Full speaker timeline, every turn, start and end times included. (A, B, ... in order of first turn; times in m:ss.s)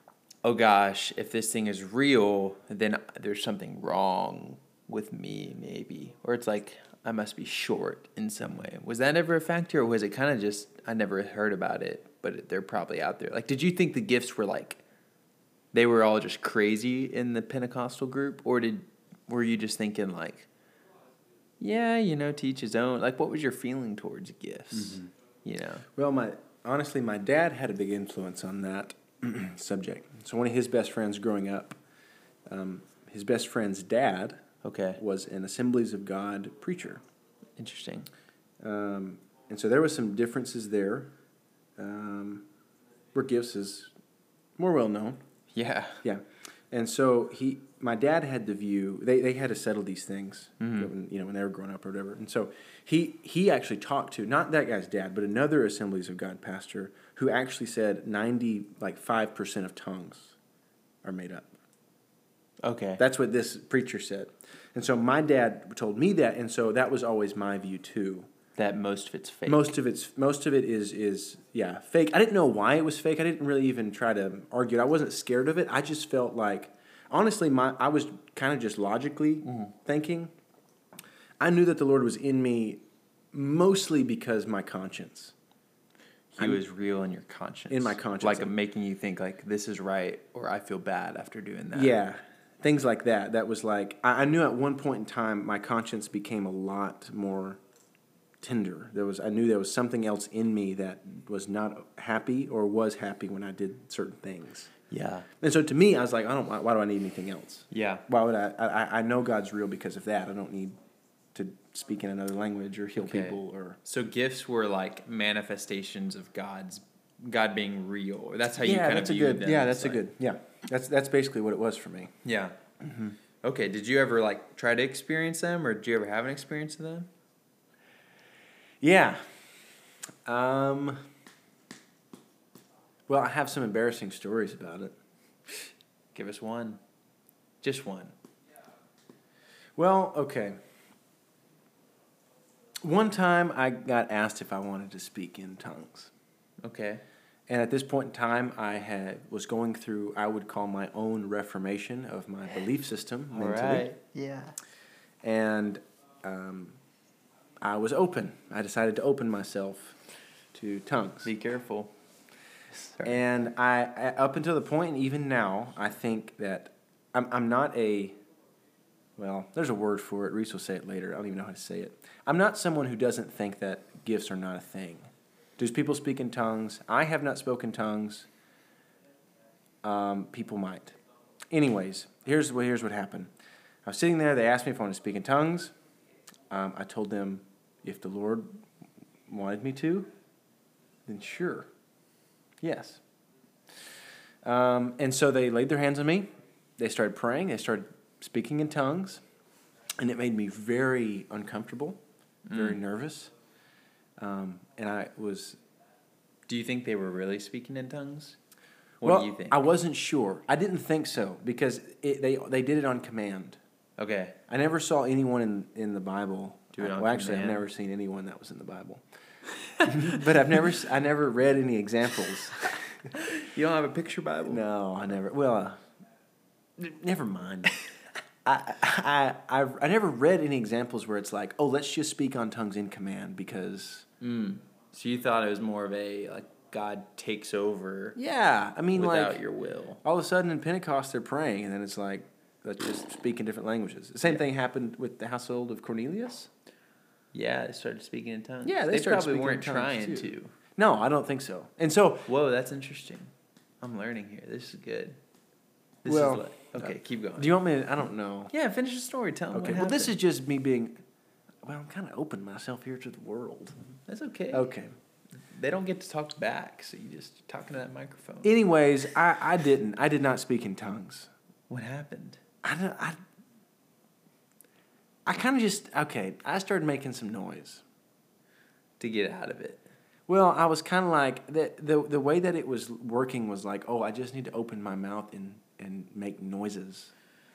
0:00.4-0:14.8 A
0:15.7-0:20.5 A
0:21.6-0:25.9 A
0:24.7-0:25.1 B
0:26.0-0:31.8 B
0:32.5-0:34.4 B
0:34.6-0:35.0 A
0:35.0-0:37.0 B
0:37.6-0:38.1 A
0:38.6-0:41.1 B
0:41.8-0:42.5 B
0:43.1-0:43.9 B
0:44.6-0:45.2 B
0:45.5-0:46.0 A
0:46.0-1:00.4 B
0:50.6-0:50.9 A
1:01.0-1:01.5 B
1:02.6-1:03.0 A
1:03.0-1:08.3 B
1:08.6-1:09.7 A
1:09.5-1:20.3 B
1:19.4-1:19.7 A
1:21.4-1:25.3 B
1:26.3-1:32.0 A
1:27.7-1:28.5 B
1:31.7-1:37.6 B
1:38.4-1:44.7 B
1:44.9-1:45.3 A
1:45.4-1:50.8 B
1:47.7-1:48.0 A
1:51.3-1:53.8 B
1:53.0-2:00.0 A
1:58.6-2:02.1 B
2:02.2-2:02.6 A
2:02.8-2:03.2 B
2:03.4-2:07.1 A
2:08.8-2:09.4 B
2:10.2-2:11.0 B
2:13.1-2:15.0 B
2:16.1-2:16.8 A
2:17.6-2:18.1 A
2:19.8-2:20.6 B
2:22.8-2:26.1 B
2:26.6-2:27.0 A
2:27.5-2:33.9 B
2:33.4-2:34.6 A
2:35.2-2:36.8 B
2:37.6-2:40.0 B
2:40.5-2:41.3 B
2:41.2-2:41.9 A
2:42.7-2:43.2 A
2:43.0-2:48.2 B
2:49.2-2:58.3 B
2:59.8-3:01.0 B
3:01.5-3:03.3 B
3:03.8-3:05.7 B
3:06.5-3:08.5 B
3:09.3-3:10.1 B
3:11.1-3:11.7 B
3:12.6-3:13.0 B
3:14.4-3:19.2 B
3:20.0-3:22.0 B
3:22.5-3:22.8 A
3:22.5-3:23.3 B
3:24.2-3:25.6 B
3:26.5-3:28.4 A
3:29.0-3:29.6 A
3:29.0-3:33.6 B
3:34.0-3:34.4 A
3:34.5-3:39.0 B
3:36.8-3:37.6 A
3:39.8-3:40.0 A
3:39.8-3:43.1 B
3:43.1-3:44.6 A
3:44.5-3:45.8 B
3:46.8-3:47.7 B
3:48.4-3:54.1 B
3:54.2-3:58.2 A
3:58.2-3:59.4 B
3:58.9-4:00.0 A
4:00.0-4:06.5 B
4:07.3-4:10.5 A
4:08.6-4:12.3 B
4:12.3-4:15.2 A
4:16.0-4:17.6 A
4:16.1-4:18.5 B
4:18.5-4:20.2 A
4:19.5-4:21.0 B
4:21.6-4:23.8 B
4:24.1-4:24.7 A
4:24.5-4:24.9 B
4:25.4-4:28.6 A
4:28.4-4:31.3 B
4:31.7-4:32.4 A
4:32.6-4:33.2 B
4:35.3-4:37.8 B
4:39.0-4:39.8 A
4:40.3-4:47.1 B